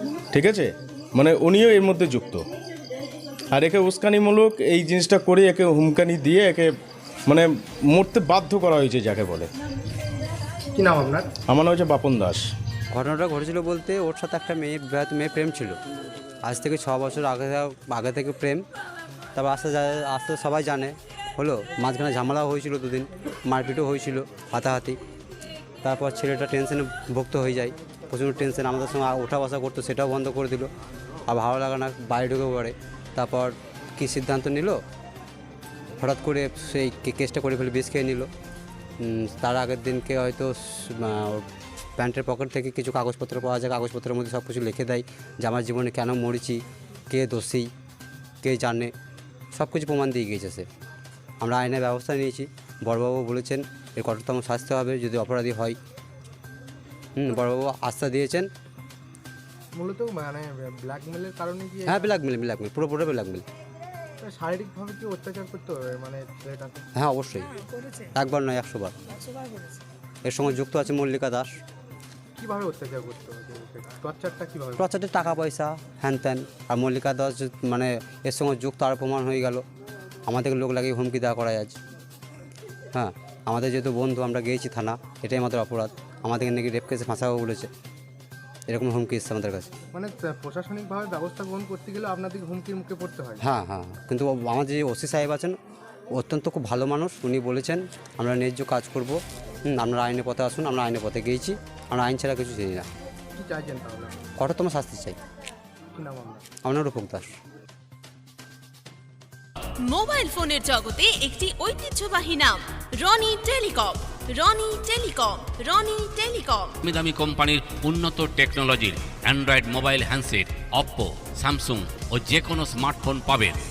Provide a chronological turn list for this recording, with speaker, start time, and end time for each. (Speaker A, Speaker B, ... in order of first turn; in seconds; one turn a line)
Speaker A: 0.3-2.4
Speaker A: 3.5-6.7
Speaker A: 7.3-9.5
Speaker B: 10.7-11.3
Speaker A: 11.5-12.5
Speaker C: 12.9-15.8
Speaker C: 16.4-18.6
Speaker C: 19.4-25.0
Speaker C: 25.8-30.7
Speaker C: 31.3-34.8
Speaker C: 36.0-38.3
Speaker C: 39.0-41.4
Speaker C: 42.0-47.7
Speaker C: 48.4-48.9
Speaker C: 49.5-50.7
Speaker C: 51.4-55.8
Speaker C: 57.1-58.5
Speaker B: 59.7-62.1
Speaker C: 61.9-63.4
Speaker B: 64.2-66.8
Speaker C: 67.0-67.5
Speaker C: 68.1-69.2
Speaker C: 70.2-71.5
Speaker B: 72.3-74.9
Speaker C: 74.8-79.6
Speaker C: 80.3-81.7
Speaker C: 82.9-87.7
Speaker C: 88.7-89.7
Speaker B: 89.9-93.4
Speaker C: 93.4-95.5
Speaker C: 96.1-102.9
Speaker B: 103.3-104.2
Speaker C: 104.4-105.2
Speaker B: 105.9-106.4
Speaker C: 106.6-107.3
Speaker D: 109.9-116.7
Speaker E: 116.8-123.6